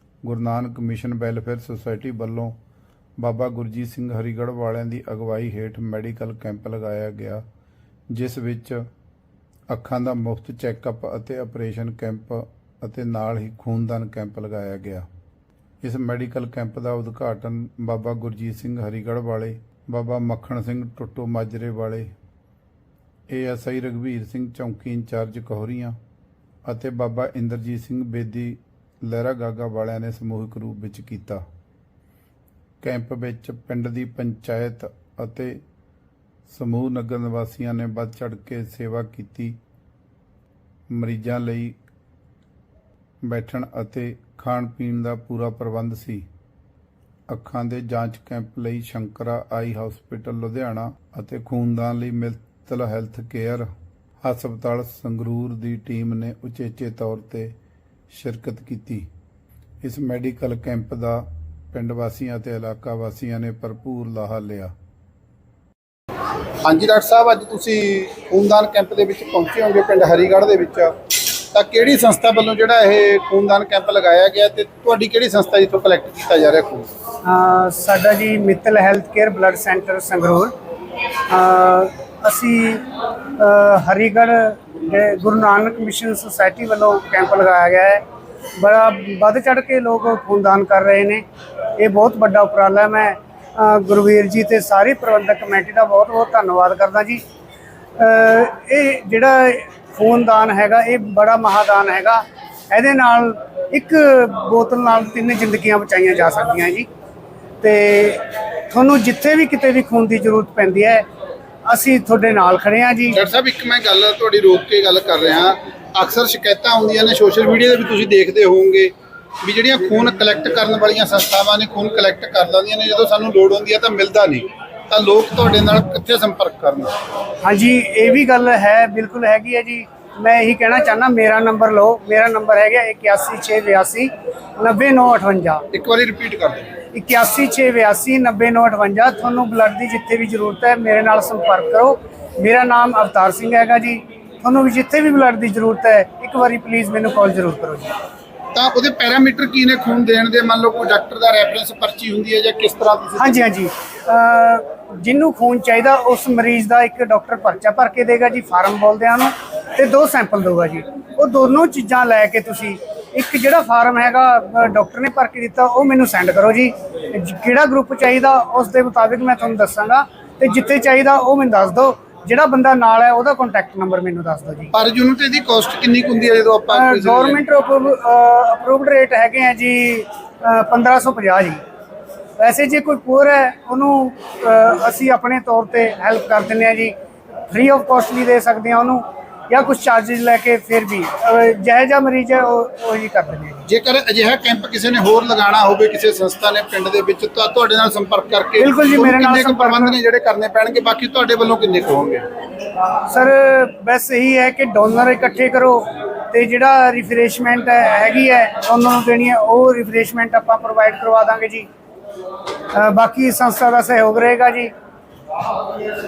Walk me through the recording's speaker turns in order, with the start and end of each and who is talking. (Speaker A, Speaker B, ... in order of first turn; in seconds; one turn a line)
Speaker A: 0.2-2.5
Speaker A: 3.2-7.4
Speaker A: 8.1-8.9
Speaker A: 9.7-15.1
Speaker A: 15.8-22.1
Speaker A: 23.3-26.0
Speaker A: 26.7-31.4
Speaker A: 32.8-35.6
Speaker A: 36.5-39.6
Speaker A: 40.9-41.8
Speaker A: 43.2-46.2
Speaker A: 47.3-53.7
Speaker A: 54.2-57.5
Speaker A: 58.1-59.1
Speaker A: 59.8-64.7
Speaker B: 66.6-70.9
Speaker B: 71.5-76.8
Speaker C: 77.2-80.5
Speaker C: 81.3-82.8
Speaker C: 83.4-88.0
Speaker C: 88.6-91.2
Speaker C: 91.8-97.2
Speaker C: 98.0-106.9
Speaker C: 107.6-111.0
Speaker C: 111.7-113.2
Speaker B: 113.1-118.9
Speaker B: 119.4-126.9
Speaker C: 127.4-135.7
Speaker B: 135.7-136.7
Speaker C: 136.9-147.9
Speaker B: 148.5-153.2
Speaker C: 153.2-174.7
Speaker B: 174.7-177.4
Speaker C: 176.7-181.6
Speaker C: 182.4-186.9
Speaker C: 187.5-193.6
Speaker B: 193.7-202.2
Speaker C: 198.6-200.0
Speaker C: 203.1-211.7
Speaker C: 212.7-214.7